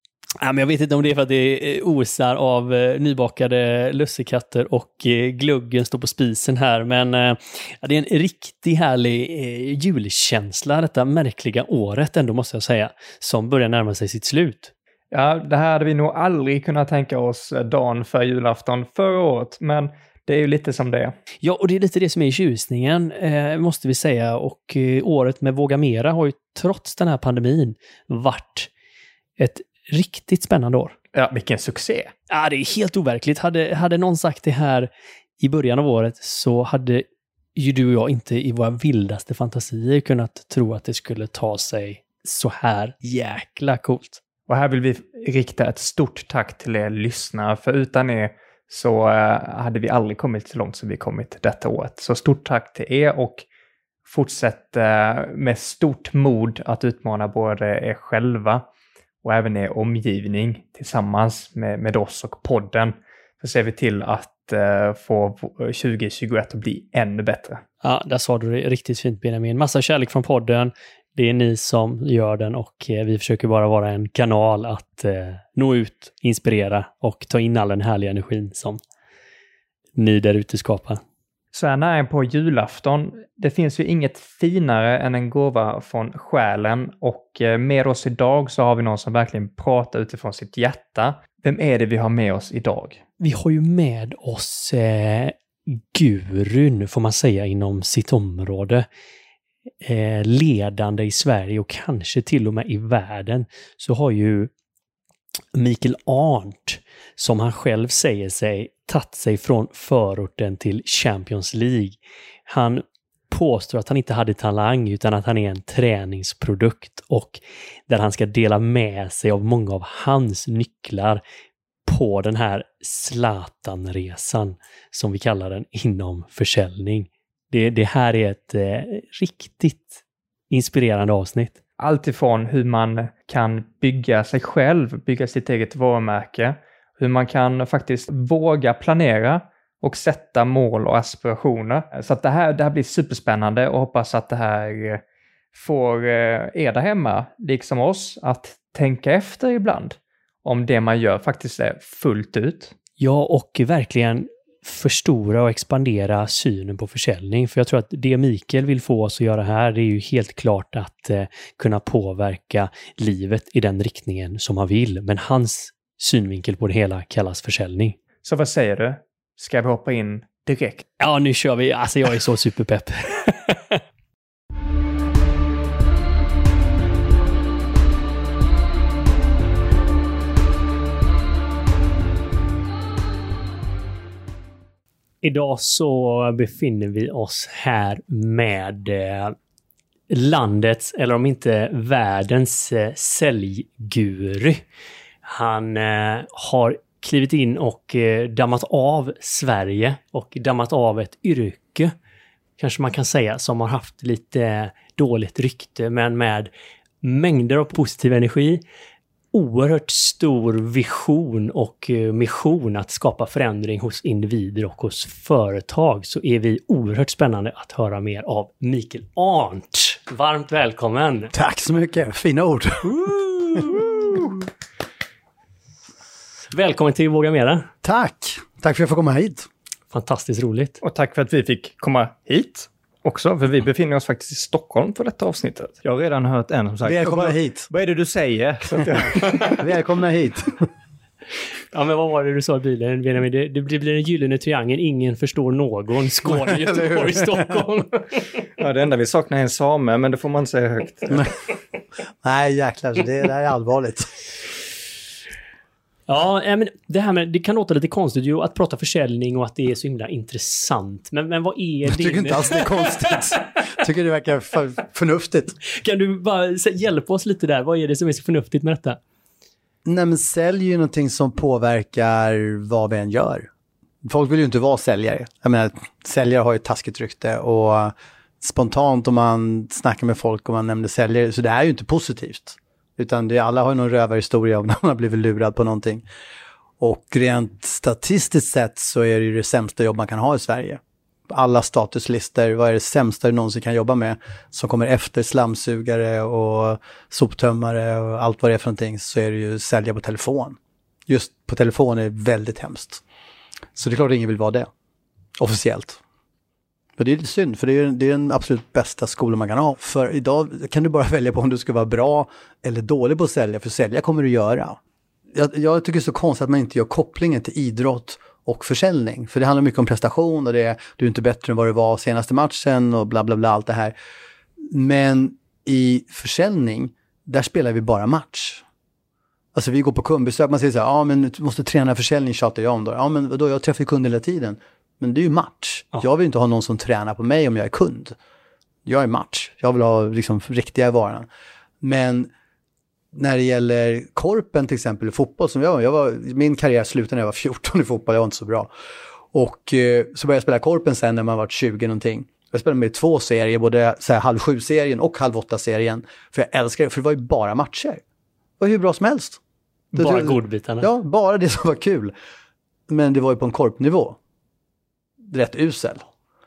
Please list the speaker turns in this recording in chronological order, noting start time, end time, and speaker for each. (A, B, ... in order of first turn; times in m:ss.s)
0:00.4-0:14.7 A
0:15.1-0:21.1 B
0:21.4-0:28.7 A
0:29.4-0:31.0 A
0:31.1-0:32.1 B
0:32.3-0:44.2 A
0:44.5-0:53.4 B
0:54.0-0:58.6 B
0:59.2-1:07.6 B
1:07.8-1:18.8 A
1:20.0-1:21.0 A
1:21.5-1:33.0 B
1:33.2-1:38.8 A
1:39.8-1:44.5 A
1:45.5-2:01.2 A
2:01.8-2:11.6 A
2:11.8-2:25.0 B
2:25.5-2:32.7 B
2:33.0-2:48.0 A
2:48.2-2:50.9 B
2:51.0-2:53.8 A
3:05.2-3:09.3 A
3:10.1-3:14.6 A
3:15.2-3:21.9 A
3:22.6-3:26.5 A
3:27.0-3:28.6 A
3:29.3-3:41.3 A
3:41.3-3:43.7 C
3:42.9-3:44.1 A
3:46.5-3:47.7 A
3:47.8-3:49.5 C
3:49.9-3:50.8 A
3:50.8-3:59.6 B
3:56.8-3:57.7 C
3:58.8-4:00.6 C
4:01.7-4:08.2 A
4:06.3-4:07.2 C
4:08.6-4:11.3 B
4:12.2-4:14.2 C
4:16.1-4:23.4 A
4:21.8-4:25.6 C
4:25.7-4:29.0 A
4:29.8-4:33.5 C
4:34.0-4:46.0 C
4:46.8-5:03.0 C
5:03.7-5:04.7 C
5:05.4-5:06.0 C
5:07.0-5:14.8 C
5:15.3-5:23.9 C
5:24.6-5:28.6 C
5:29.5-5:38.2 C
5:38.8-5:41.3 C
5:41.8-5:42.3 C
5:43.1-5:48.7 C
5:49.3-5:58.0 C
5:58.6-5:59.4 C
5:59.9-6:00.9 A
6:00.0-6:02.1 C
6:02.9-6:04.2 C
6:05.2-6:06.1 C